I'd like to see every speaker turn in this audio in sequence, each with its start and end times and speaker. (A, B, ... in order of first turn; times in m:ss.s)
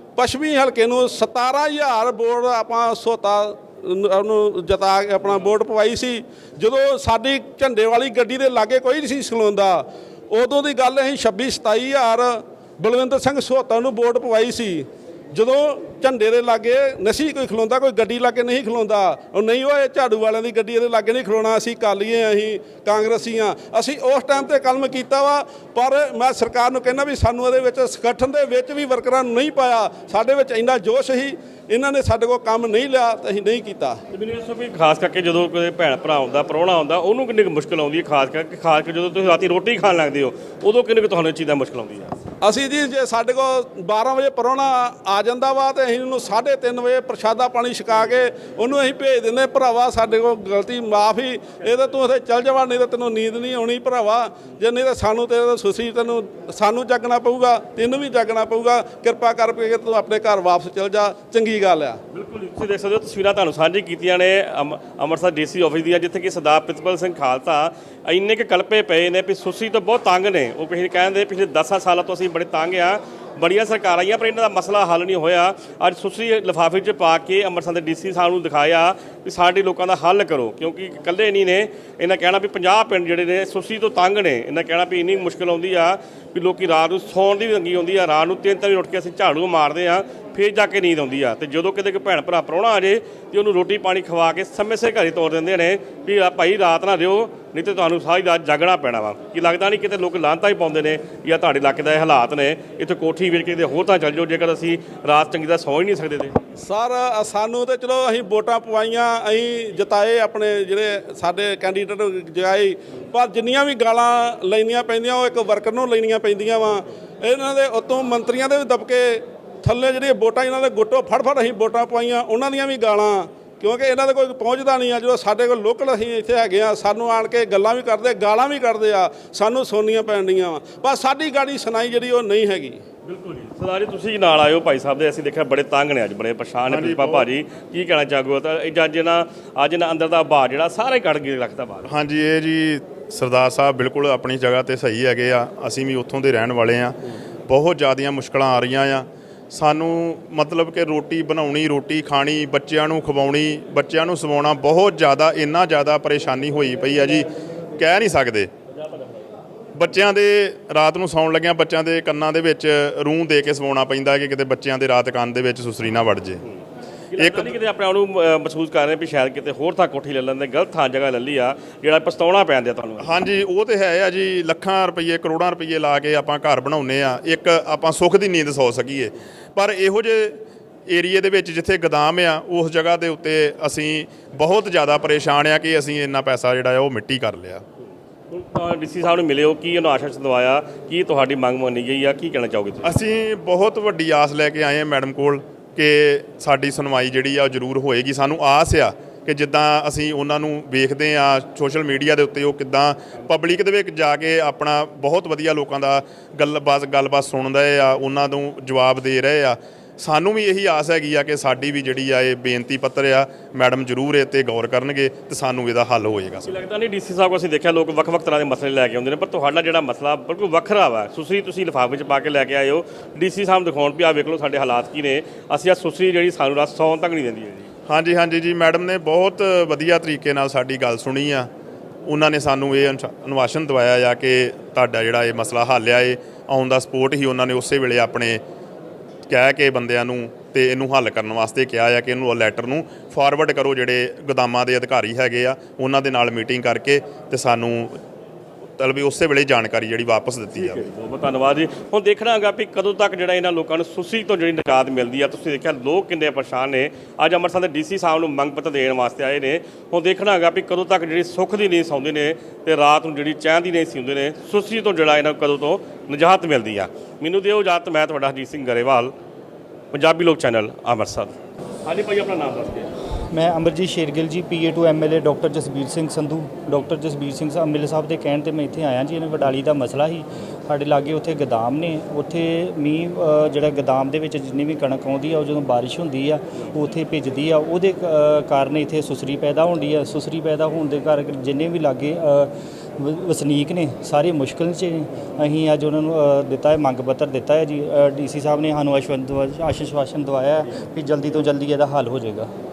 0:00.2-0:34.0 A
0:34.1-0:42.2 B
0:42.4-1:02.0 A
1:02.1-1:46.3 B
1:46.6-2:12.8 A
2:13.0-2:21.9 B
2:16.7-2:17.3 C
2:21.9-2:37.2 C
2:37.8-2:38.5 C
2:39.7-2:46.4 C
2:47.1-2:53.2 B
2:47.2-2:47.5 C
2:53.0-3:07.6 C
3:08.3-3:13.0 B
3:12.8-3:36.6 C
3:36.4-3:47.7 B
3:47.9-3:51.5 C
3:52.0-3:58.4 C
3:59.2-4:08.0 C
4:08.8-4:10.8 C
4:10.6-4:29.1 B
4:29.9-4:31.3 B
4:31.8-4:32.9 B
4:33.3-5:02.5 D